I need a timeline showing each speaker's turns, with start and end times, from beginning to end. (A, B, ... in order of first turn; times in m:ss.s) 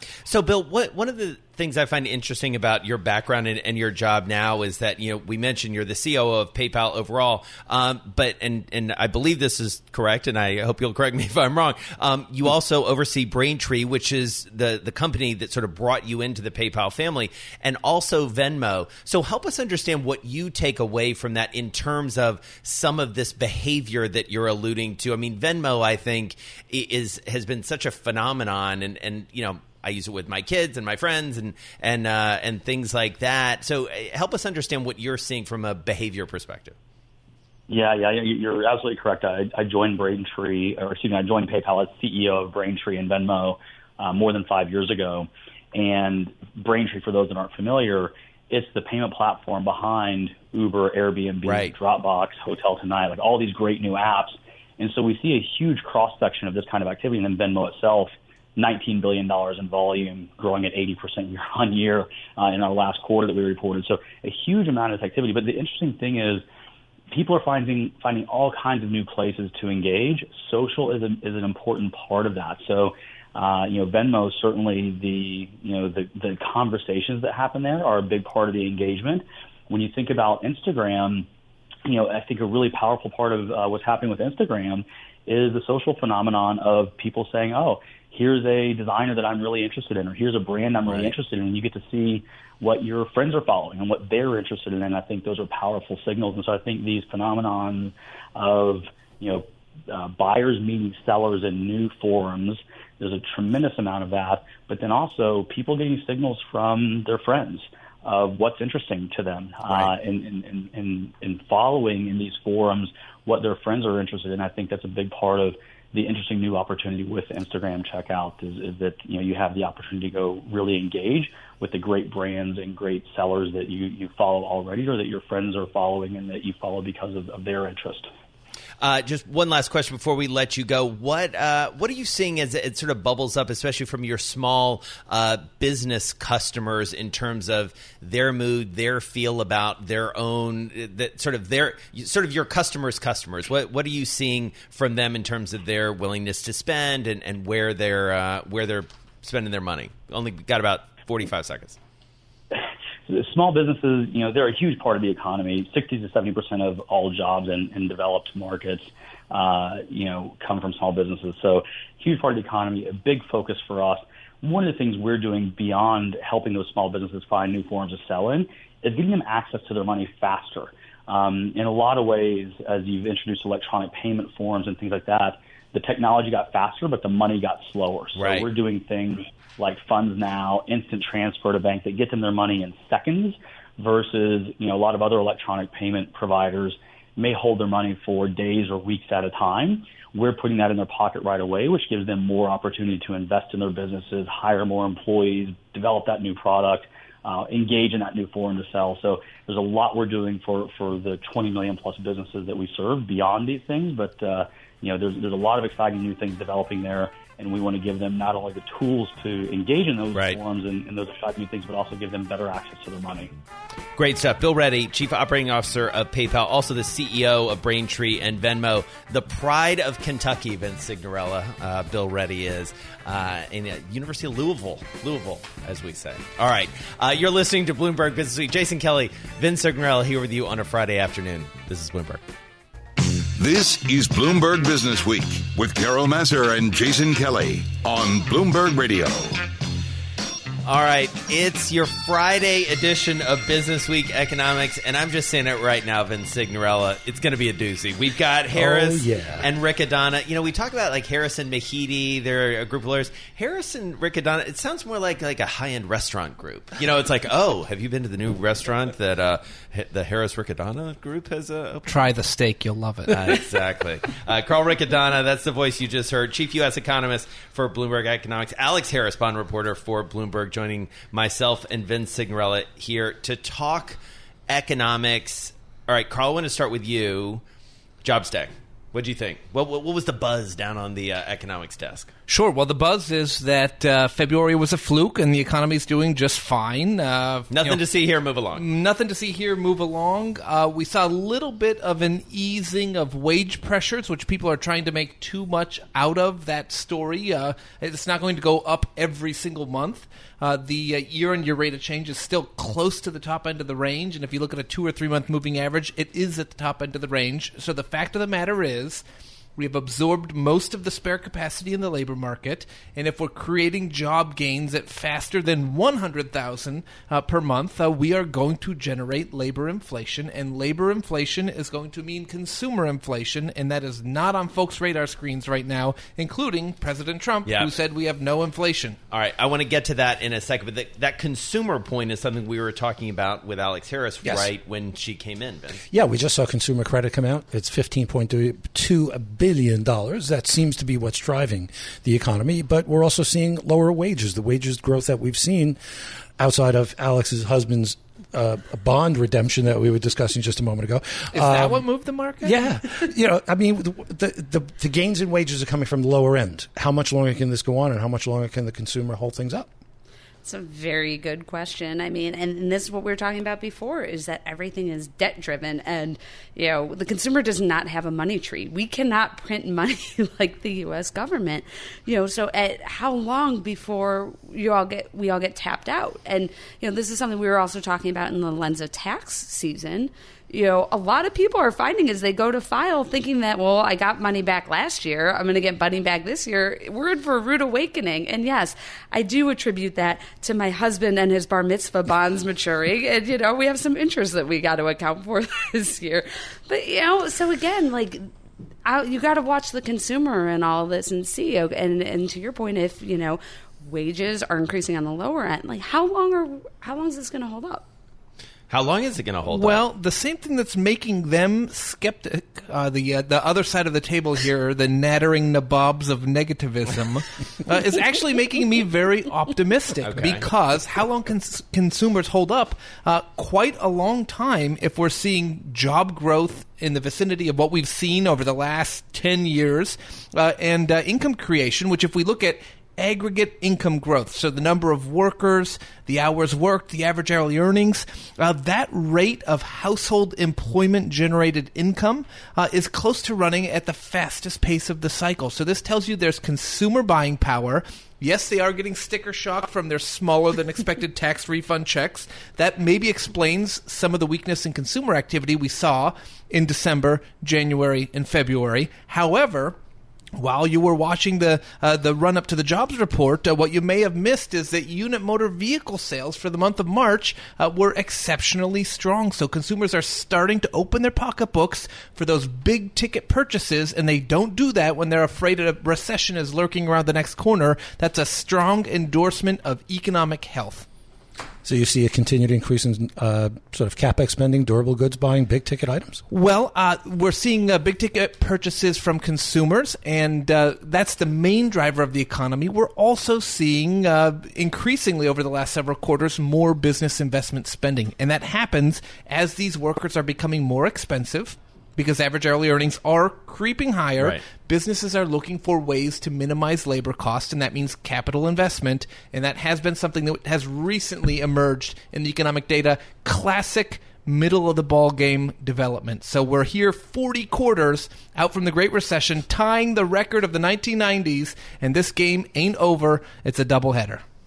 0:00.3-0:36.8 A
0:37.7-1:06.4 B
0:51.4-0:51.7 A
1:07.1-1:21.3 B
1:21.8-2:08.1 B
1:30.9-1:31.1 A
2:08.8-2:31.8 A
2:32.5-3:33.3 B
2:58.2-2:58.5 A
3:34.0-3:52.2 A
3:53.4-3:59.4 C
4:00.6-4:21.9 A
4:08.5-4:09.5 D
4:21.9-4:23.4 E
4:23.1-4:37.4 A
4:38.0-4:42.1 A
4:42.3-4:47.8 E
4:47.5-4:48.6 A
4:48.6-5:09.0 E
5:09.6-5:29.0 E
5:27.4-5:27.7 A
5:29.1-5:35.8 A
5:34.2-5:34.5 D
5:35.9-5:45.8 D
5:46.4-5:51.8 D
5:51.3-5:53.1 E
5:52.4-5:59.7 D
6:00.4-6:38.3 F
6:38.8-6:47.9 F
6:48.7-6:49.8 A
6:49.5-7:39.8 E
7:00.0-7:00.5 A
7:40.4-8:00.9 E
8:01.6-8:06.2 D
8:06.3-8:44.2 E